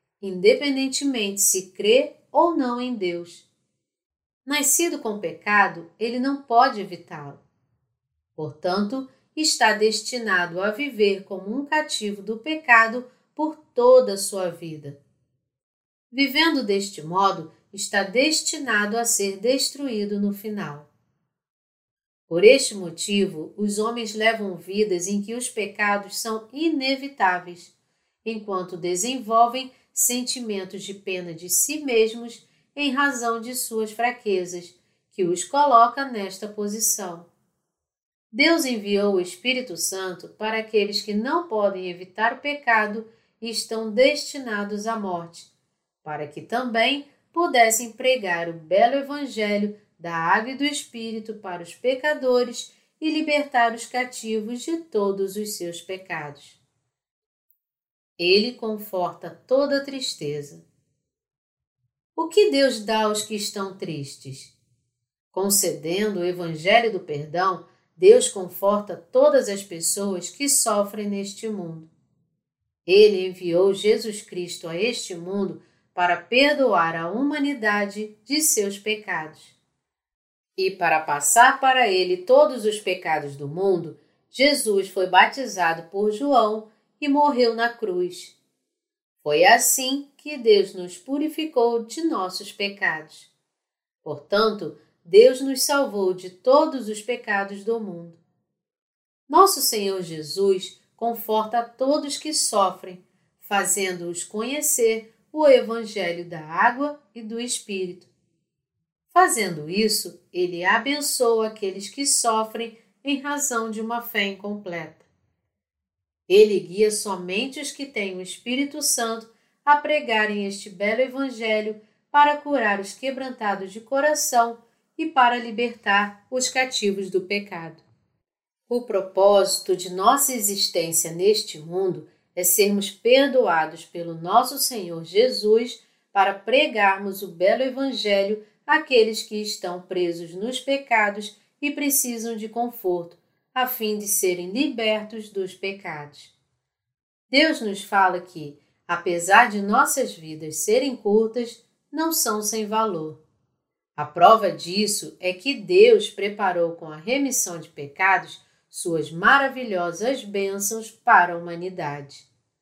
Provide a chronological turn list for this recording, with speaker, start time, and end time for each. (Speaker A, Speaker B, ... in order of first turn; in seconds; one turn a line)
Speaker A: 0.2-3.5
Speaker A: 4.5-7.4
Speaker A: 8.4-15.0
Speaker A: 16.1-20.9
Speaker A: 22.3-27.7
Speaker A: 28.2-37.3
Speaker A: 38.3-45.5
Speaker A: 46.0-56.6
Speaker A: 58.2-60.6
Speaker A: 62.2-64.5
Speaker A: 65.3-71.9
Speaker A: 72.9-79.6
Speaker A: 80.6-88.4
Speaker A: 89.2-93.3
Speaker A: 94.0-98.2
Speaker A: 99.3-108.1
Speaker A: 109.1-115.1
Speaker A: 116.3-127.8
Speaker A: 128.7-146.3
Speaker A: 147.3-153.2
Speaker A: 154.0-162.3